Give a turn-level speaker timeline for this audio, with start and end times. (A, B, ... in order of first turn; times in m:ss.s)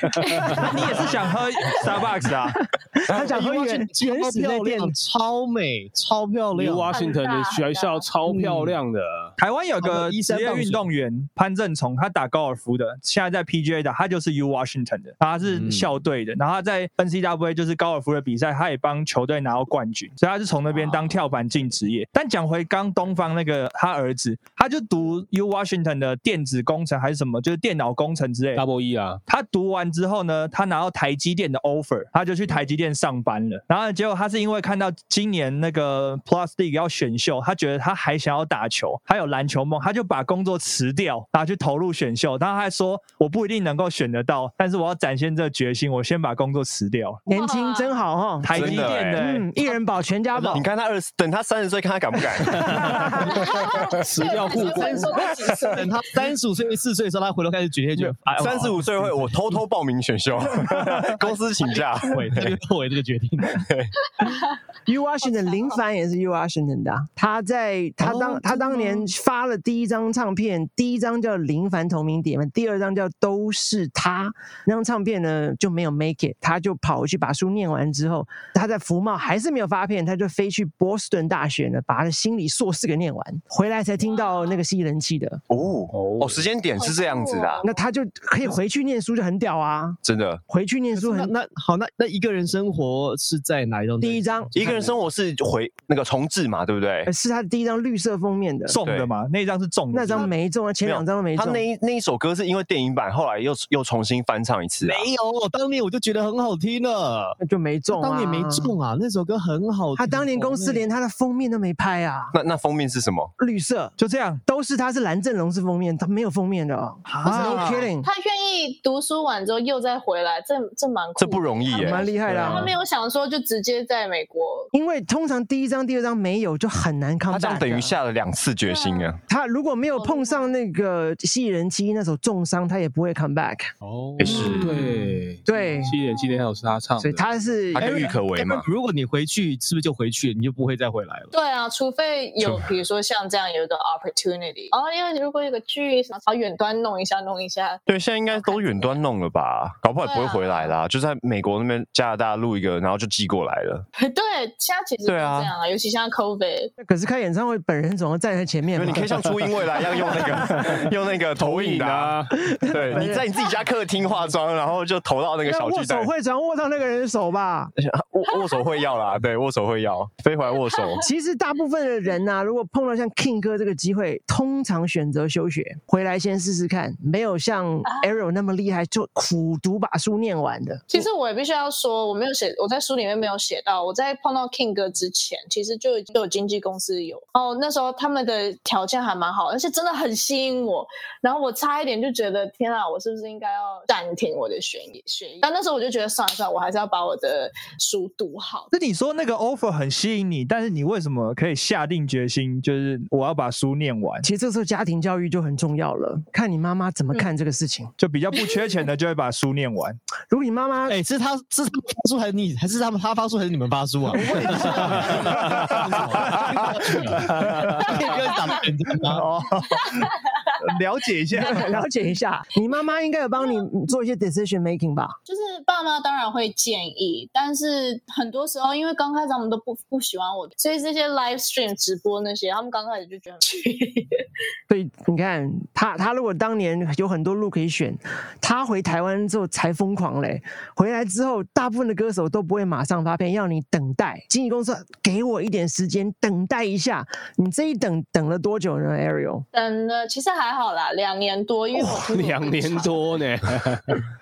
0:00.5-0:01.0 A
0:00.6-0:02.6 B
0:03.0-0:04.9 C
0:03.1-0:06.9 A
0:06.5-0:09.3 D
0:06.9-0:08.1 E
0:08.2-0:08.8 A
0:09.4-0:28.6 B
0:09.8-0:10.9 A
0:15.4-0:15.9 A
0:28.5-0:29.2 D
0:29.3-0:47.2 B
0:47.2-0:48.0 E
0:47.3-0:50.6 C
0:48.4-0:49.5 B
0:48.5-0:49.2 F
0:50.4-0:53.8 F
0:53.3-0:56.3 E
0:54.0-0:55.2 D
0:54.4-0:59.4 A
0:58.4-1:02.5 F
1:02.0-1:03.6 A
1:03.6-1:03.9 F
1:04.8-1:25.4 C
1:05.2-1:05.8 E
1:08.0-1:09.0 A
1:24.0-1:24.6 E
1:25.5-1:27.6 F
1:25.9-1:26.4 D
1:26.8-1:27.9 E
1:27.6-1:31.3 C
1:30.0-1:30.4 F
1:30.9-1:34.9 A
1:34.0-1:34.5 C
1:34.5-1:37.1 F
1:37.0-1:38.8 C
1:38.7-1:40.3 B
1:38.8-1:39.1 F
1:39.9-1:41.6 C
1:40.8-1:45.1 F
1:44.8-1:47.4 A
1:47.4-1:48.7 C
1:47.9-1:50.9 A
1:50.0-1:52.3 C
1:52.3-1:53.3 F
1:53.4-1:58.1 C
1:54.0-1:54.4 B
1:57.1-1:57.9 B
1:58.0-2:04.7 E
2:01.2-2:02.1 F
2:01.7-2:02.7 C
2:04.7-2:08.0 C
2:07.3-2:09.2 F
2:08.6-2:09.2 E
2:09.3-2:13.7 C
2:09.9-2:10.5 E
2:13.8-2:17.2 D
2:14.2-2:14.8 F
2:14.6-2:15.0 A
2:15.4-2:15.9 C
2:15.8-2:16.5 E
2:17.0-2:18.1 C
2:17.7-2:18.6 F
2:17.8-2:21.3 A
2:21.3-2:29.0 E
2:27.9-2:33.8 F
2:30.0-2:30.8 E
2:34.0-2:36.7 E
2:35.0-2:35.5 F
2:36.8-2:39.2 C
2:38.7-2:46.1 F
2:41.4-2:42.4 D
2:42.5-2:43.2 C
2:45.4-2:47.7 C
2:47.8-2:51.0 F
2:51.0-3:01.0 C
2:57.8-2:58.1 E
3:00.9-3:18.7 E
3:18.7-3:24.2 B
3:24.2-3:27.9 C
3:28.0-3:30.0 B
3:30.3-3:31.0 C
3:30.9-3:39.3 A
3:34.2-3:35.1 C
3:34.2-3:38.1 B
3:39.0-3:41.7 B
3:41.4-3:45.2 C
3:45.3-3:54.2 E
3:54.7-4:09.4 C
4:09.5-4:13.0 E
4:11.8-4:14.0 D